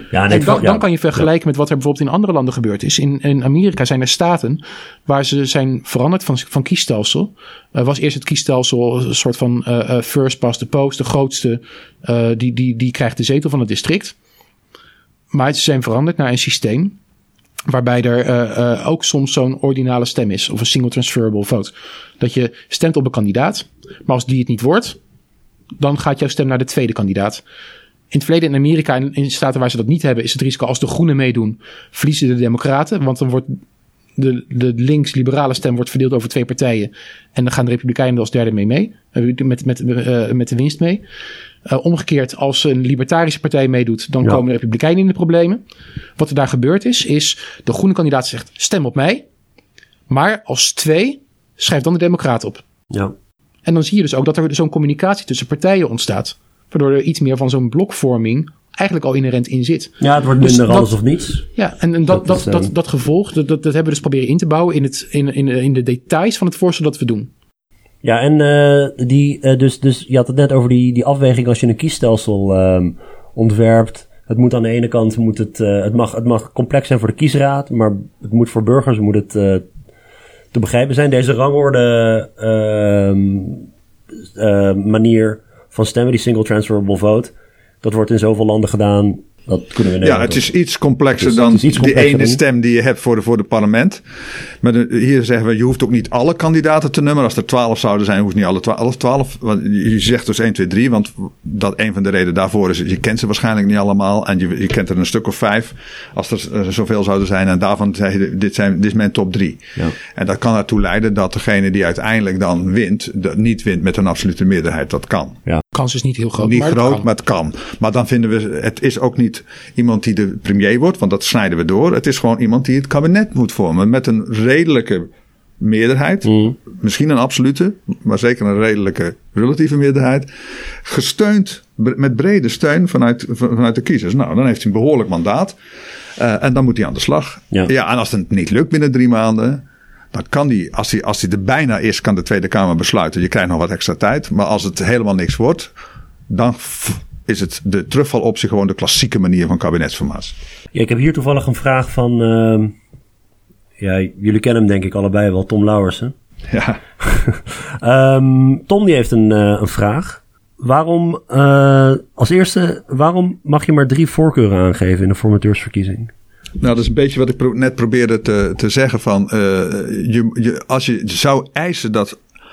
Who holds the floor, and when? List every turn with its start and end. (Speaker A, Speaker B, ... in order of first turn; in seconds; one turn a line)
Speaker A: 0.1-0.8
Speaker B: 0.3-14.2
Speaker B: 15.3-17.0
Speaker B: 17.7-25.0
Speaker B: 25.8-27.4
Speaker B: 28.1-33.6
Speaker B: 34.2-41.0
Speaker B: 41.7-45.6
Speaker B: 46.2-49.2
Speaker B: 50.1-52.6
Speaker B: 53.7-60.9
Speaker A: 60.0-61.5
Speaker B: 61.5-67.3
Speaker A: 62.1-62.7
Speaker A: 68.0-79.7
Speaker A: 80.5-83.7
Speaker A: 84.4-87.3
Speaker A: 87.8-90.4
Speaker C: 90.0-94.0
Speaker A: 91.2-92.4
Speaker C: 94.6-115.4
Speaker B: 115.7-117.1
Speaker C: 116.4-130.3
Speaker A: 126.3-126.5
Speaker C: 130.8-135.6
Speaker C: 136.2-145.7
Speaker C: 146.3-150.3
Speaker A: 150.7-152.7
Speaker A: 153.8-156.2
Speaker C: 156.5-156.8
Speaker A: 157.0-166.1
Speaker C: 166.6-172.2